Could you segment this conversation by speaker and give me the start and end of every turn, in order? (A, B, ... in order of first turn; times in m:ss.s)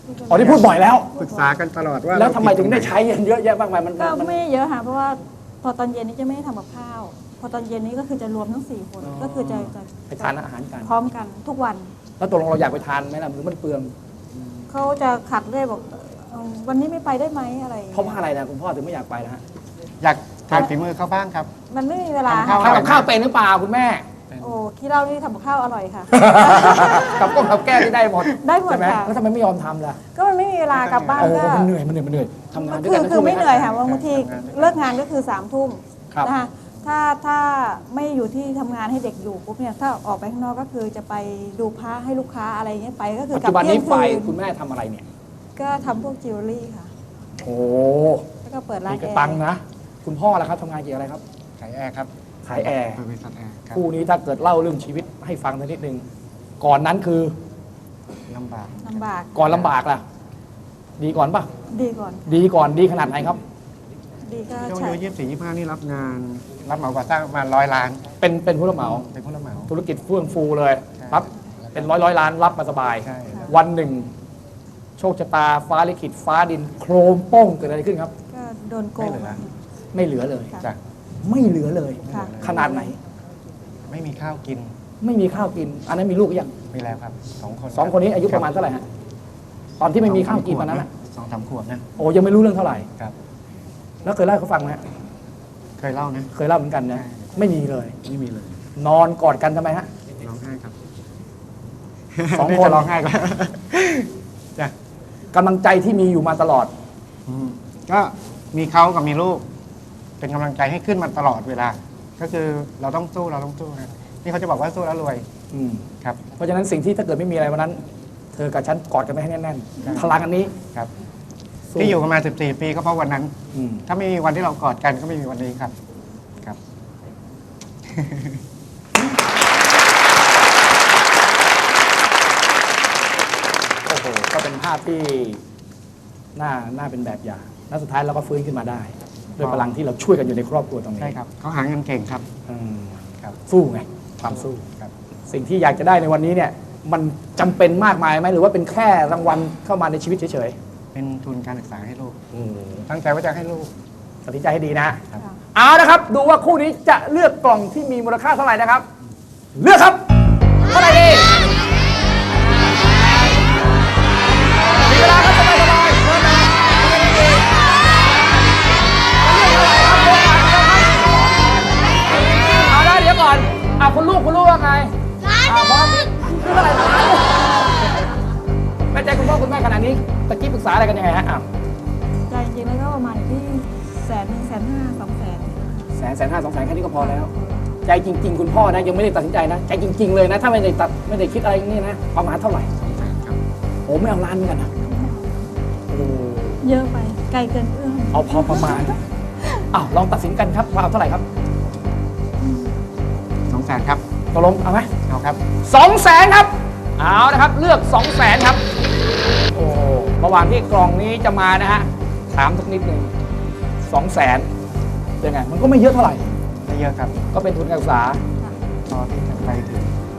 0:00.1-0:01.5 A
0:00.3-0:01.1 B
0:00.3-0:00.6 C
0:01.1-0:03.0 C
0:02.1-0:04.4 B
0:04.0-0:11.9 A
0:09.0-0:10.9 B
0:12.2-0:13.9 B
0:14.3-0:14.6 C
0:14.7-0:18.2 A
0:17.9-0:19.4 B
0:20.0-0:21.5 C
0:21.7-0:22.9 A
0:22.3-0:23.1 C
0:22.5-0:24.0 B
0:24.3-0:24.6 C
0:24.4-0:27.2 A
0:26.1-0:30.0 B
0:28.4-0:29.2 A
0:30.1-0:31.7 A
0:30.7-0:31.4 C
0:31.2-0:33.7 B
0:32.6-0:44.3 A
0:33.6-0:34.8 C
0:43.3-0:45.0 B
0:45.6-0:46.9 A
0:47.4-0:48.2 B
0:48.4-0:49.4 A
0:48.9-0:51.2 B
0:51.6-0:52.1 C
0:52.4-0:53.0 B
0:52.6-0:53.8 C
0:53.7-0:56.0 B
0:56.6-0:57.3 B
0:58.3-0:59.7 C
0:58.8-0:59.3 A
0:59.3-1:00.0 B
1:01.0-1:01.5 B
1:01.7-1:02.4 A
1:02.3-1:03.4 B
1:04.2-1:05.0 A
1:04.6-1:08.0 C
1:08.2-1:09.0 B
1:08.8-1:09.7 C
1:09.7-1:14.1 B
1:11.0-1:12.0 C
1:13.0-1:13.5 C
1:15.0-1:18.1 B
1:18.3-1:19.4 A
1:19.0-1:19.4 C
1:19.9-1:20.6 B
1:21.2-1:23.0 B
1:22.0-1:22.8 C
1:22.1-1:22.9 A
1:23.9-1:24.7 C
1:25.0-1:26.5 B
1:26.7-1:28.5 C
1:27.7-1:28.8 B
1:29.8-1:30.8 B
1:30.0-1:31.8 C
1:32.0-1:32.9 B
1:34.0-1:34.8 B
1:35.8-1:36.3 C
1:36.3-1:38.2 B
1:36.9-1:37.5 C
1:38.0-1:38.5 C
1:38.8-1:39.9 B
1:40.2-1:40.7 C
1:42.2-1:44.7 C
1:42.3-1:42.9 B
1:45.3-1:46.7 B
1:47.2-1:49.4 C
1:50.2-1:55.3 C
1:55.5-1:57.8 B
1:58.3-2:00.5 B
1:59.8-2:00.1 C
2:01.7-2:02.0 B
2:01.8-2:05.7 C
2:03.5-2:03.8 B
2:08.0-2:08.2 C
2:13.8-2:15.4 B
2:16.4-2:21.2 B
2:19.4-2:19.8 C
2:21.0-2:22.2 C
2:22.5-2:24.6 B
2:24.2-2:24.9 C
2:25.3-2:30.6 B
2:30.9-2:32.3 C
2:32.4-2:32.8 B
2:32.8-2:33.7 C
2:34.2-2:35.0 B
2:35.5-2:38.9 B
2:39.6-2:40.0 B
2:40.7-2:41.4 B
2:44.8-2:47.6 B
2:49.2-2:54.9 B
2:55.4-2:57.6 B
2:58.9-3:01.4 B
3:02.3-3:05.9 A
3:06.0-3:07.3 B
3:07.0-3:07.7 A
3:07.8-3:12.7 B
3:12.7-3:13.4 C
3:13.9-3:14.7 B
3:14.8-3:15.5 A
3:15.9-3:16.6 B
3:16.6-3:19.0 A
3:18.1-3:19.0 B
3:19.7-3:21.2 B
3:22.4-3:22.7 A
3:23.5-3:24.0 C
3:24.3-3:24.9 B
3:25.0-3:25.4 C
3:25.6-3:28.6 B
3:29.5-3:33.1 B
3:33.9-3:34.5 B
3:35.2-3:36.2 B
3:36.6-3:37.2 C
3:37.3-3:38.2 B
3:38.9-3:39.9 C